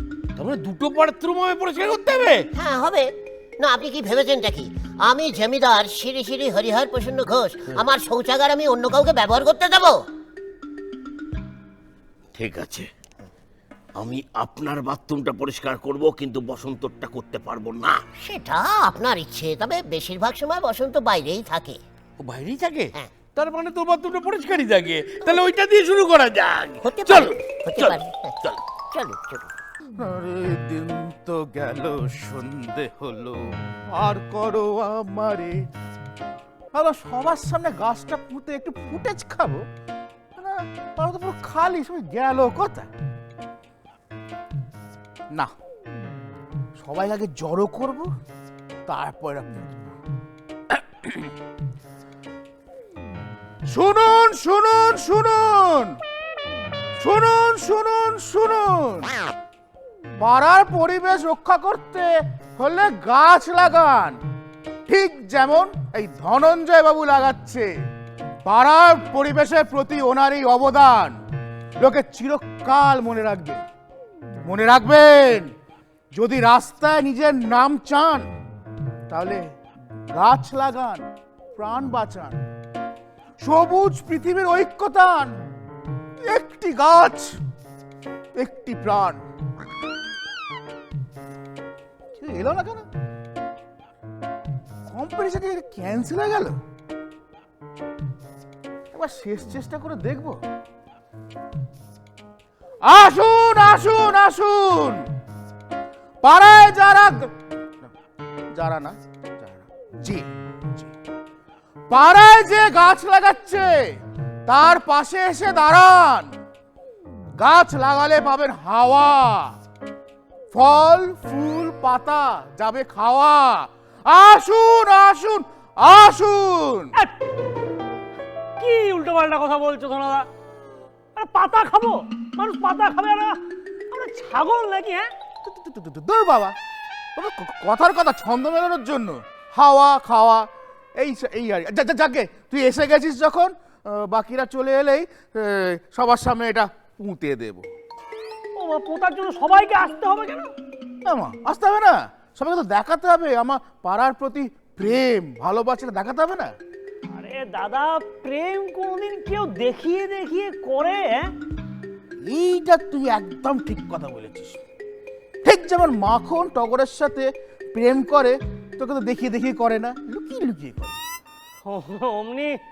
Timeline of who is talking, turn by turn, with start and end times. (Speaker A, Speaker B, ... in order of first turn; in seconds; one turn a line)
Speaker A: 0.4-2.5
Speaker B: 2.5-10.0
Speaker A: 12.3-12.9
Speaker A: 14.0-18.0
Speaker B: 18.2-21.8
Speaker A: 22.2-28.6
Speaker B: 26.8-28.3
Speaker B: 28.9-29.5
Speaker C: 30.0-33.1
Speaker A: 32.9-33.4
Speaker C: 33.9-35.6
Speaker C: 36.7-39.6
Speaker C: 40.4-42.9
Speaker C: 46.8-48.1
Speaker C: 48.9-49.9
Speaker C: 53.7-56.0
Speaker C: 57.0-59.1
Speaker C: 60.2-64.2
Speaker C: 64.9-67.7
Speaker C: 68.4-71.2
Speaker C: 71.8-73.7
Speaker C: 74.4-75.5
Speaker C: 76.1-78.3
Speaker C: 79.1-79.5
Speaker C: 80.1-82.4
Speaker C: 83.4-85.4
Speaker C: 86.2-87.4
Speaker C: 88.3-89.2
Speaker C: 92.2-92.8
Speaker C: 94.9-96.6
Speaker C: 98.9-100.4
Speaker C: 102.8-105.0
Speaker C: 106.2-107.9
Speaker C: 108.5-110.9
Speaker C: 111.9-116.3
Speaker C: 117.3-119.5
Speaker C: 120.5-126.9
Speaker D: 128.6-130.3
Speaker D: 131.2-133.4
Speaker D: 133.9-135.1
Speaker C: 135.4-136.6
Speaker C: 137.2-147.7
Speaker D: 148.6-150.5
Speaker C: 151.0-156.5
Speaker D: 157.1-161.3
Speaker C: 162.2-164.6
Speaker C: 165.4-171.0
Speaker D: 171.6-172.6